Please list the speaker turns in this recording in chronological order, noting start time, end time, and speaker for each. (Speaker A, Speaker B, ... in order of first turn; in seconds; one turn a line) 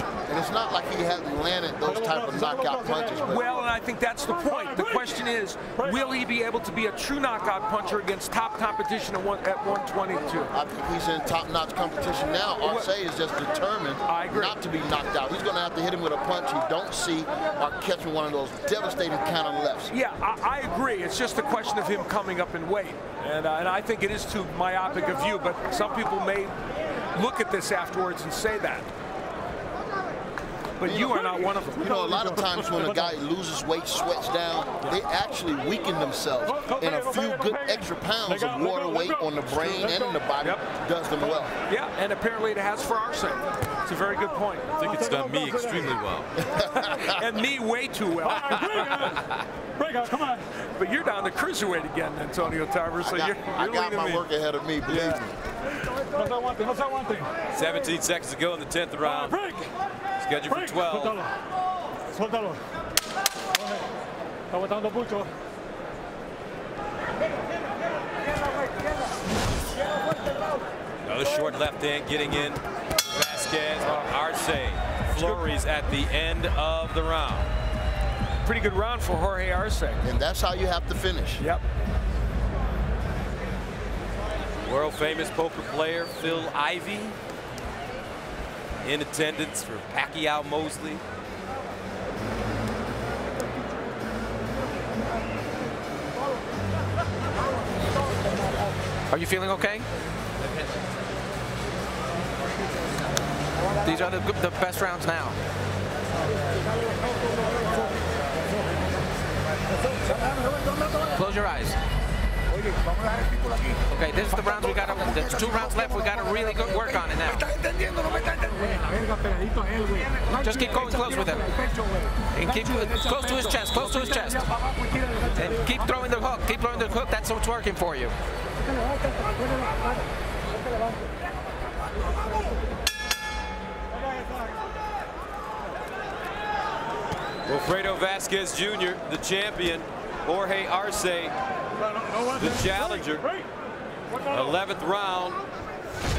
Speaker A: 0.3-3.5
Speaker B: 1.8-3.3
Speaker C: 3.3-10.5
Speaker B: 4.5-5.2
Speaker B: 5.7-6.2
Speaker A: 10.5-19.9
Speaker C: 12.6-12.9
Speaker C: 14.1-14.6
Speaker C: 19.9-26.6
Speaker C: 27.1-28.9
Speaker C: 30.8-32.2
Speaker A: 30.8-41.5
Speaker B: 32.1-33.2
Speaker B: 36.5-40.3
Speaker C: 41.7-44.7
Speaker D: 44.8-46.3
Speaker B: 44.8-45.9
Speaker A: 46.4-47.2
Speaker C: 47.1-49.1
Speaker B: 48.2-50.5
Speaker D: 48.7-49.4
Speaker C: 50.8-54.2
Speaker A: 53.0-55.3
Speaker C: 54.9-55.2
Speaker B: 56.1-57.3
Speaker D: 57.5-59.4
Speaker B: 59.0-59.7
Speaker D: 60.2-61.2
Speaker B: 60.5-61.3
Speaker B: 62.1-62.6
Speaker B: 63.5-63.8
Speaker B: 64.5-65.3
Speaker D: 71.0-77.5
Speaker C: 75.1-75.5
Speaker C: 78.4-80.0
Speaker A: 80.0-81.4
Speaker D: 84.6-87.2
Speaker D: 88.8-91.0
Speaker E: 99.1-99.9
Speaker E: 103.8-105.4
Speaker E: 111.1-111.8
Speaker E: 113.9-117.6
Speaker E: 120.2-121.6
Speaker E: 122.3-128.1
Speaker B: 133.9-134.6
Speaker D: 137.4-141.3
Speaker B: 141.8-143.5
Speaker D: 142.3-143.2
Speaker B: 144.1-144.6
Speaker D: 144.3-145.4